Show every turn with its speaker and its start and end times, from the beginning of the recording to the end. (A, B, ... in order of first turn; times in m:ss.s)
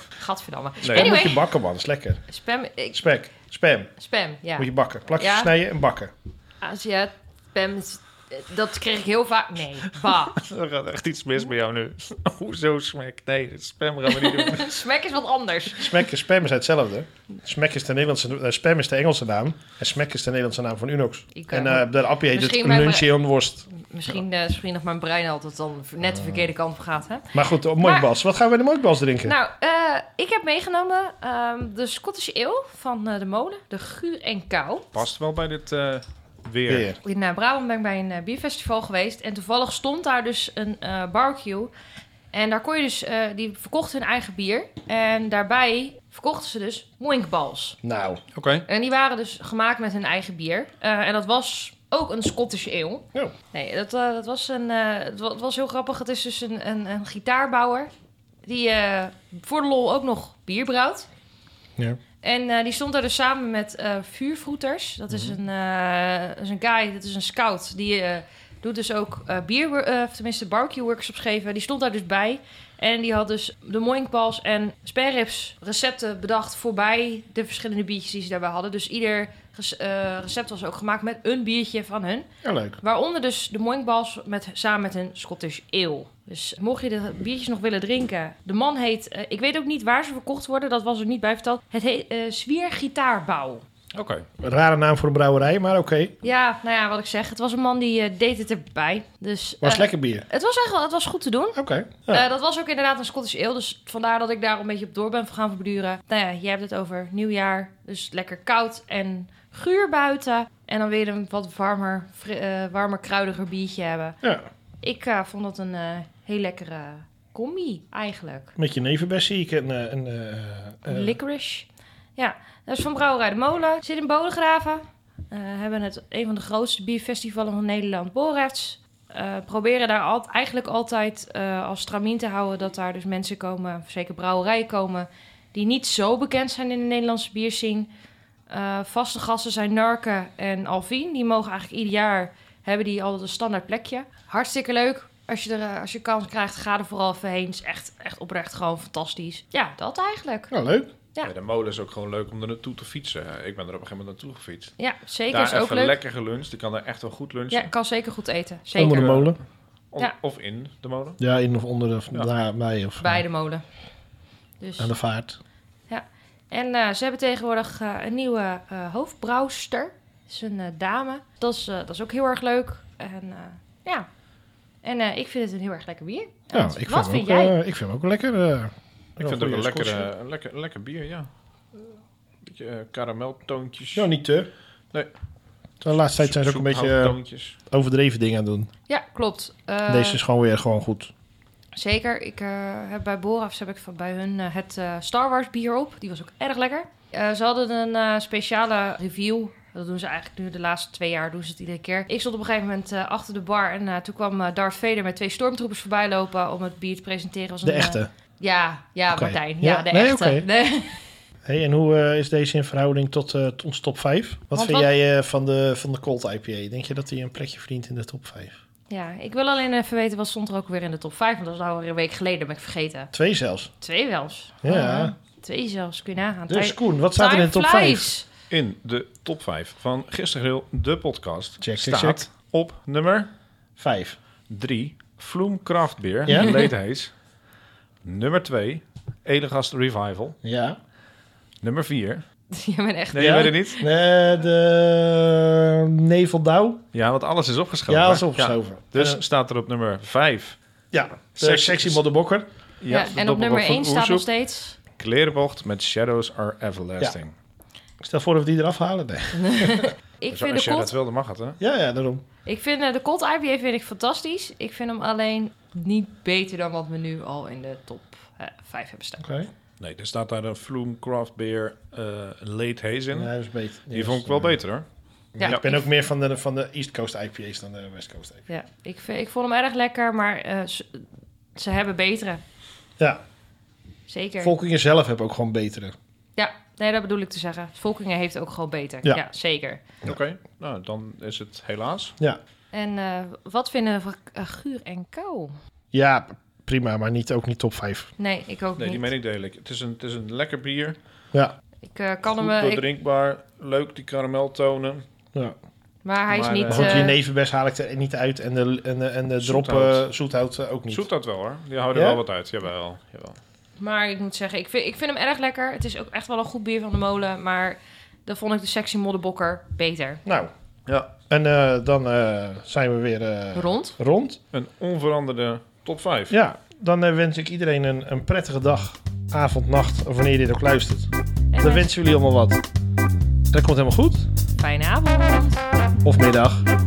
0:00.2-0:01.4 A
0:00.8-0:01.1 B
0:00.8-0:02.2 C
0:02.3-0:03.0 A
0:02.9-0:03.9 C
0:04.0-0:05.5 A
0:04.6-0:06.1 C
0:06.6-0:10.4 A
0:10.4-0:14.8 B
0:14.1-0:16.0 A
0:15.8-0:23.7 C
0:21.3-0:23.1 A
0:23.7-0:28.1 A
0:26.0-0:26.5 C
0:27.3-0:29.4 C
0:29.2-0:35.0 A
0:34.9-0:36.9 B
0:36.7-0:37.0 C
0:37.0-0:41.7 A
0:42.3-0:47.8 A
0:47.8-0:48.2 C
0:48.4-0:48.7 B
0:48.7-0:57.9 A
0:58.4-1:01.1 A
1:02.2-1:22.3 A
1:22.4-1:22.8 C
1:22.8-1:33.6 A
1:33.9-1:34.3 B
1:34.4-1:36.1 C
1:36.2-1:54.2 A
1:39.6-1:40.2 C
1:41.6-1:42.3 C
1:54.2-1:54.5 C
1:54.8-1:58.5 A
1:58.6-2:01.2 C
2:00.9-2:17.9 A
2:18.5-2:30.5 A
2:30.5-2:30.9 C
2:31.2-2:34.8 B
2:34.8-2:36.0 A
2:35.3-2:37.7 B
2:37.5-2:39.1 A
2:38.8-2:39.4 C
2:38.8-2:39.4 B
2:39.9-2:41.2 B
2:41.2-2:43.2 C
2:43.0-2:43.6 A
2:44.6-2:44.9 A
2:44.8-2:45.4 C
2:45.9-2:54.1 A
2:54.8-2:57.6 A
2:56.5-3:00.1 C
2:59.2-3:01.9 B
3:02.4-3:04.1 B
3:03.9-3:04.5 C
3:05.8-3:07.2 C
3:06.2-3:07.6 B
3:07.7-3:08.7 C
3:08.9-3:10.2 A
3:09.9-3:11.1 C
3:11.8-3:31.0 A
3:27.6-3:28.1 C
3:29.1-3:30.5 C
3:31.4-3:38.6 C
3:34.5-3:34.9 A
3:38.9-3:43.1 A
3:43.1-3:43.7 C
3:43.8-3:48.3 A
3:44.6-3:45.1 C
3:46.5-3:48.1 C
3:48.5-3:53.3 B
3:51.6-3:52.2 C
3:53.8-3:54.2 C
3:54.5-3:57.1 B
3:56.3-3:56.6 C
3:58.0-4:00.4 B
4:00.4-4:00.8 C
4:01.6-4:02.2 B
4:02.5-4:03.8 A
4:03.1-4:03.8 B
4:03.2-4:06.8 C
4:06.9-4:10.6 B
4:07.9-4:09.2 C
4:10.9-4:12.4 C
4:11.4-4:12.0 B
4:12.8-4:14.3 B
4:12.9-4:14.8 A
4:15.0-4:17.3 B
4:18.0-4:19.9 C
4:19.3-4:20.9 A
4:20.3-4:21.6 B
4:21.6-4:22.2 C
4:22.4-4:29.2 A
4:29.2-4:29.5 C
4:29.8-4:33.3 B
4:33.1-4:34.6 C
4:33.9-4:34.8 B
4:35.4-4:38.4 C
4:35.4-4:35.8 A
4:38.5-4:42.4 A
4:44.1-4:44.5 A
4:44.4-4:45.9 C
4:46.4-4:49.8 A
4:50.0-4:52.2 B
4:52.7-4:55.5 A
4:55.9-4:58.1 C
4:58.2-4:59.0 A
4:58.8-5:01.0 B
5:01.8-5:02.8 A
5:02.2-5:05.1 B
5:06.0-5:07.2 A
5:06.3-5:07.1 B
5:06.7-5:11.1 C
5:09.4-5:10.0 B
5:10.9-5:13.4 B
5:11.9-5:12.2 C
5:13.8-5:20.2 A
5:20.3-5:20.5 C
5:20.9-5:21.1 B
5:21.3-5:24.4 C
5:23.5-5:24.0 A
5:24.5-5:26.4 B
5:26.3-5:32.6 C
5:31.5-5:31.9 A
5:33.5-5:34.3 C
5:34.6-5:35.6 A
5:36.0-5:36.7 C